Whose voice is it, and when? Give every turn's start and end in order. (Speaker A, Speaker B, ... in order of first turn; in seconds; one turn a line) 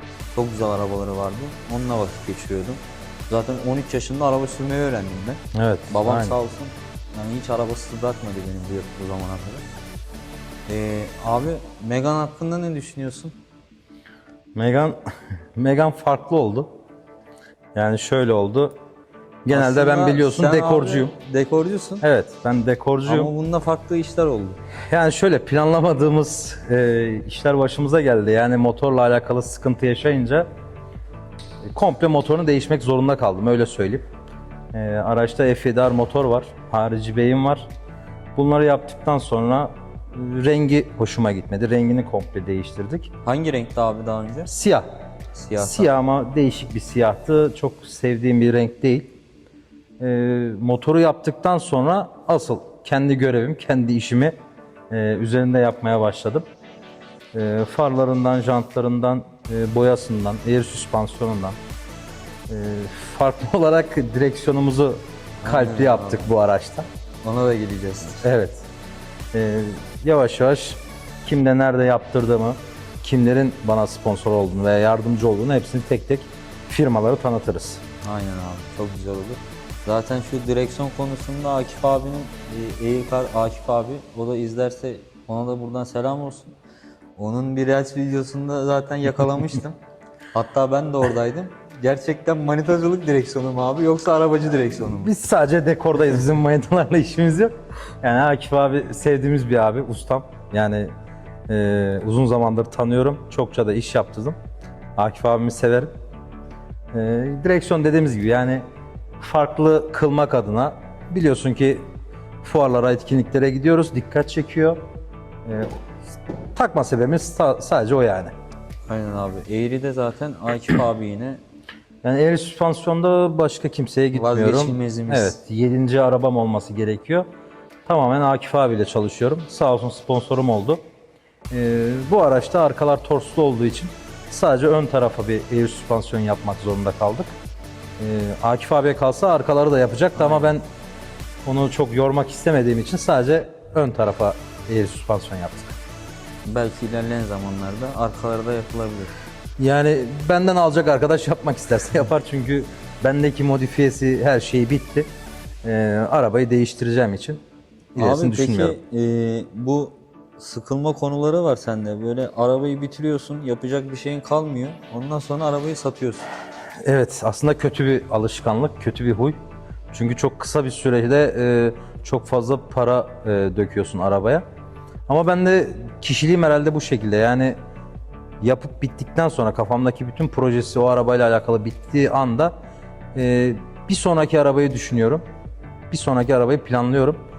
Speaker A: 0.3-9.6
Speaker B: 5.5-6.4
Speaker A: 10.7-13.3
Speaker B: 14.6-15.0
Speaker B: 15.6-16.7
Speaker B: 17.8-18.7
Speaker B: 19.4-21.1
Speaker A: 19.5-22.0
Speaker B: 22.0-23.3
Speaker A: 23.1-24.6
Speaker B: 24.9-30.5
Speaker B: 31.6-34.1
Speaker B: 34.7-37.7
Speaker B: 38.4-43.1
Speaker A: 43.2-44.5
Speaker B: 44.5-44.9
Speaker A: 45.3-45.9
Speaker B: 45.6-49.1
Speaker B: 50.0-54.4
Speaker B: 54.9-56.5
Speaker B: 57.3-61.6
Speaker B: 62.5-66.9
Speaker A: 65.4-66.3
Speaker A: 67.2-68.2
Speaker B: 68.2-68.7
Speaker B: 69.3-77.8
Speaker A: 78.0-86.5
Speaker A: 87.2-89.8
Speaker A: 90.3-95.1
Speaker B: 95.0-100.9
Speaker B: 101.5-104.4
Speaker B: 105.0-105.9
Speaker B: 106.9-108.6
Speaker B: 109.2-111.9
Speaker B: 112.4-114.8
Speaker B: 115.5-115.8
Speaker B: 116.5-118.3
Speaker A: 118.9-121.4
Speaker B: 122.0-127.3
Speaker A: 124.1-125.3
Speaker B: 127.9-130.8
Speaker B: 131.5-137.3
Speaker B: 138.0-140.6
Speaker A: 140.2-140.5
Speaker B: 141.4-145.8
Speaker A: 146.5-149.1
Speaker B: 149.6-155.1
Speaker B: 155.6-157.4
Speaker B: 158.0-158.8
Speaker A: 158.0-166.3
Speaker B: 166.8-169.4
Speaker B: 169.9-174.4
Speaker B: 175.1-177.6
Speaker B: 178.4-182.5
Speaker B: 183.2-185.2
Speaker B: 185.9-187.2